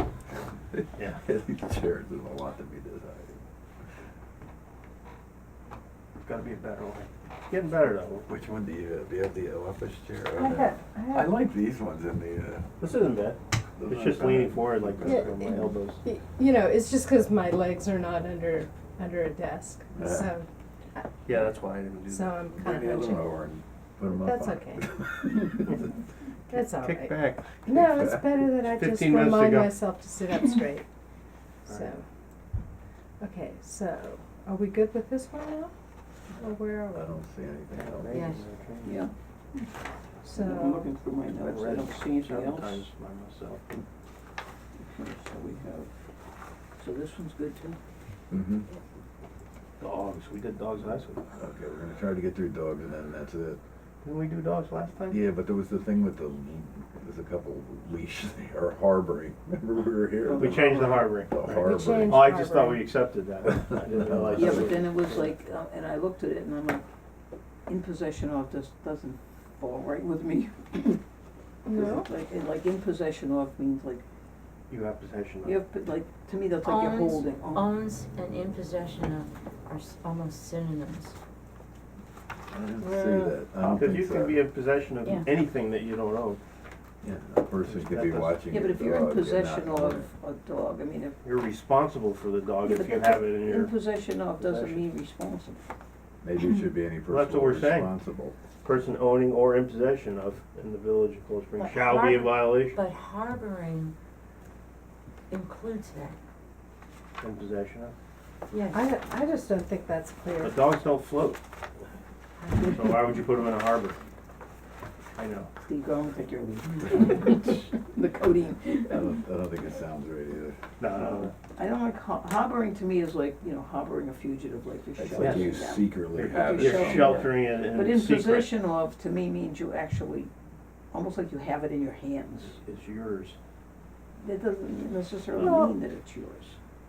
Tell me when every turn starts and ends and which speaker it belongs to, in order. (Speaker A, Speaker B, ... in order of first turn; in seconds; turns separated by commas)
Speaker A: 0.3-3.4, Speaker B: 6.2-8.3, Speaker A: 8.3-12.7, Speaker C: 10.4-11.3, Speaker B: 12.8-16.0, Speaker A: 13.8-15.8, Speaker C: 15.0-21.1, Speaker A: 19.9-20.3, Speaker B: 21.2-22.4, Speaker C: 22.1-23.3, Speaker A: 22.5-25.9, Speaker C: 24.0-24.8, Speaker C: 26.5-30.9, Speaker B: 26.6-27.6, Speaker B: 28.6-29.8, Speaker C: 31.6-32.0, Speaker C: 33.2-35.7, Speaker C: 36.4-37.1, Speaker A: 36.9-38.2, Speaker B: 37.7-39.0, Speaker D: 38.1-38.4, Speaker E: 38.8-39.7, Speaker C: 40.2-40.9, Speaker E: 40.3-42.9, Speaker B: 41.3-43.6, Speaker E: 44.8-45.9, Speaker E: 46.8-47.8, Speaker A: 48.3-48.7, Speaker B: 49.8-51.2, Speaker A: 51.4-53.6, Speaker B: 54.0-55.2, Speaker A: 55.1-62.3, Speaker E: 60.2-60.6, Speaker B: 60.4-65.3, Speaker C: 60.6-62.9, Speaker A: 63.5-64.9, Speaker E: 64.3-66.8, Speaker E: 67.7-71.0, Speaker C: 71.7-72.1, Speaker E: 71.7-74.0, Speaker B: 74.7-75.6, Speaker E: 75.4-77.7, Speaker D: 76.6-81.1, Speaker A: 82.5-84.4, Speaker D: 82.8-83.3, Speaker B: 83.6-86.4, Speaker A: 87.0-90.1, Speaker B: 87.6-88.4, Speaker E: 88.5-91.2, Speaker B: 91.2-93.7, Speaker E: 92.6-95.6, Speaker B: 94.4-94.8, Speaker A: 96.2-98.3, Speaker B: 97.1-97.9, Speaker B: 98.6-102.8, Speaker D: 101.6-103.9, Speaker D: 105.3-106.2, Speaker B: 107.2-107.9, Speaker D: 108.5-108.8, Speaker C: 108.7-110.7, Speaker B: 110.4-111.4, Speaker D: 112.4-112.7, Speaker B: 112.6-114.0, Speaker B: 115.2-115.5, Speaker E: 115.6-119.1, Speaker A: 118.9-120.6, Speaker B: 120.8-121.3, Speaker E: 121.1-130.3, Speaker A: 125.0-127.3, Speaker B: 125.2-125.5, Speaker B: 126.1-128.6, Speaker E: 130.9-132.5, Speaker B: 132.4-133.4, Speaker E: 134.2-136.6, Speaker C: 135.4-135.8